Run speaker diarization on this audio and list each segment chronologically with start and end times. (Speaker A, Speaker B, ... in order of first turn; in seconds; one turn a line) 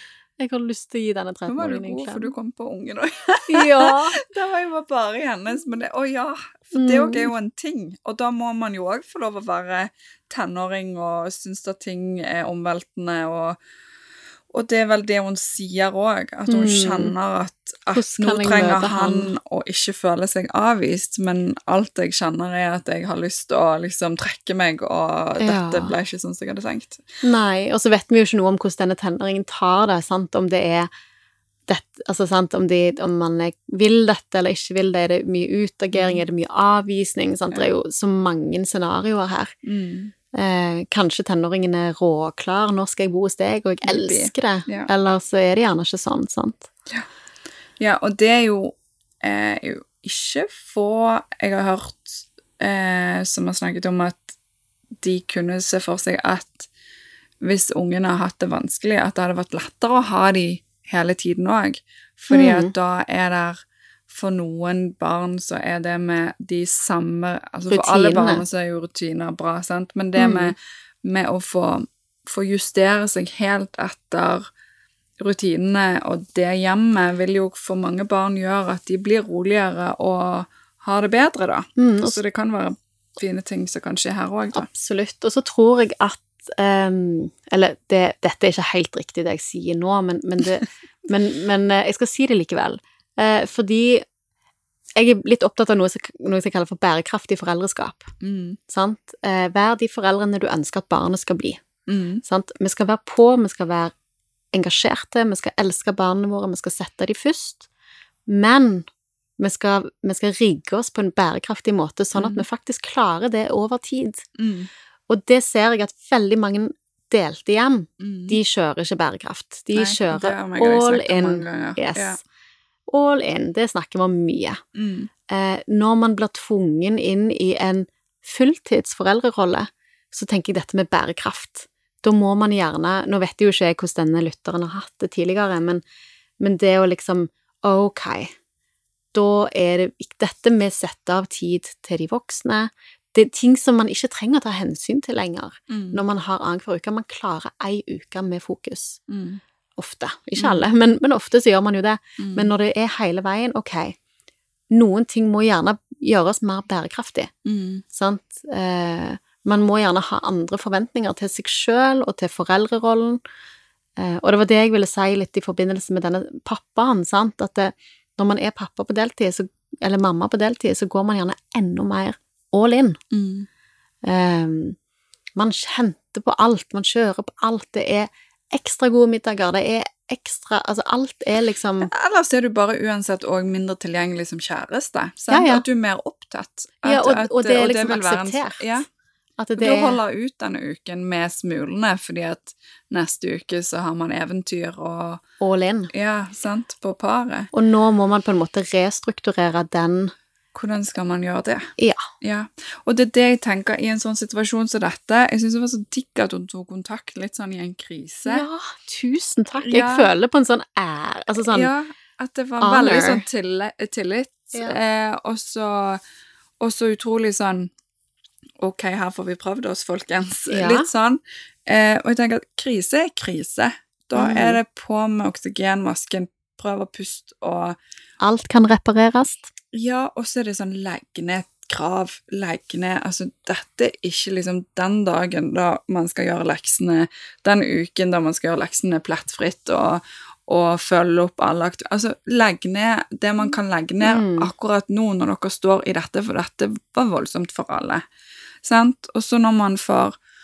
Speaker A: 0.4-2.3
Speaker B: 1.5-13.6
Speaker A: 3.5-4.2
Speaker A: 6.8-7.3
Speaker B: 14.5-27.0
Speaker A: 16.5-17.1
Speaker A: 17.9-19.3
Speaker A: 25.4-26.0
Speaker A: 27.2-30.9
Speaker A: 31.7-39.5
Speaker B: 35.9-36.2
Speaker B: 39.6-40.1
Speaker A: 40.3-46.7
Speaker B: 43.8-44.9
Speaker B: 47.8-54.4
Speaker B: 55.0-56.7
Speaker B: 57.4-63.6
Speaker A: 62.3-62.7
Speaker B: 64.1-74.5
Speaker A: 67.7-68.5
Speaker A: 70.2-70.5
Speaker B: 75.2-84.7
Speaker A: 81.8-82.2
Speaker A: 84.5-94.0
Speaker A: 95.0-98.1
Speaker B: 98.2-98.6
Speaker A: 98.7-101.6
Speaker B: 101.9-102.2
Speaker A: 102.2-103.9
Speaker A: 104.5-107.7
Speaker A: 108.3-108.9
Speaker A: 109.4-114.2
Speaker B: 112.2-112.5
Speaker B: 114.4-114.7
Speaker A: 115.1-122.2
Speaker B: 118.0-118.4
Speaker B: 119.8-122.2
Speaker A: 122.9-124.6
Speaker B: 124.8-125.1
Speaker A: 125.3-135.8
Speaker A: 136.4-138.3
Speaker A: 139.1-149.0
Speaker B: 145.7-146.0
Speaker B: 149.1-149.4
Speaker A: 149.8-154.0
Speaker B: 150.4-150.6
Speaker B: 152.2-152.5
Speaker A: 154.7-157.3
Speaker B: 157.4-157.8
Speaker A: 157.9-163.2
Speaker A: 164.0-173.0
Speaker B: 173.1-173.5
Speaker A: 174.0-174.8
Speaker A: 175.4-181.9
Speaker B: 181.8-188.9
Speaker A: 185.3-185.7
Speaker A: 186.8-188.8
Speaker A: 189.4-190.0
Speaker B: 189.6-195.2
Speaker A: 195.4-195.9
Speaker B: 195.9-197.5
Speaker A: 197.5-200.1
Speaker B: 200.6-208.4
Speaker A: 208.3-211.7
Speaker B: 209.6-210.1
Speaker B: 211.5-216.0
Speaker A: 212.6-213.2
Speaker B: 216.6-217.7
Speaker B: 218.6-227.8
Speaker A: 220.5-220.9
Speaker A: 224.2-224.6
Speaker A: 228.2-229.5
Speaker B: 229.7-248.0
Speaker A: 244.0-244.5
Speaker B: 248.6-250.2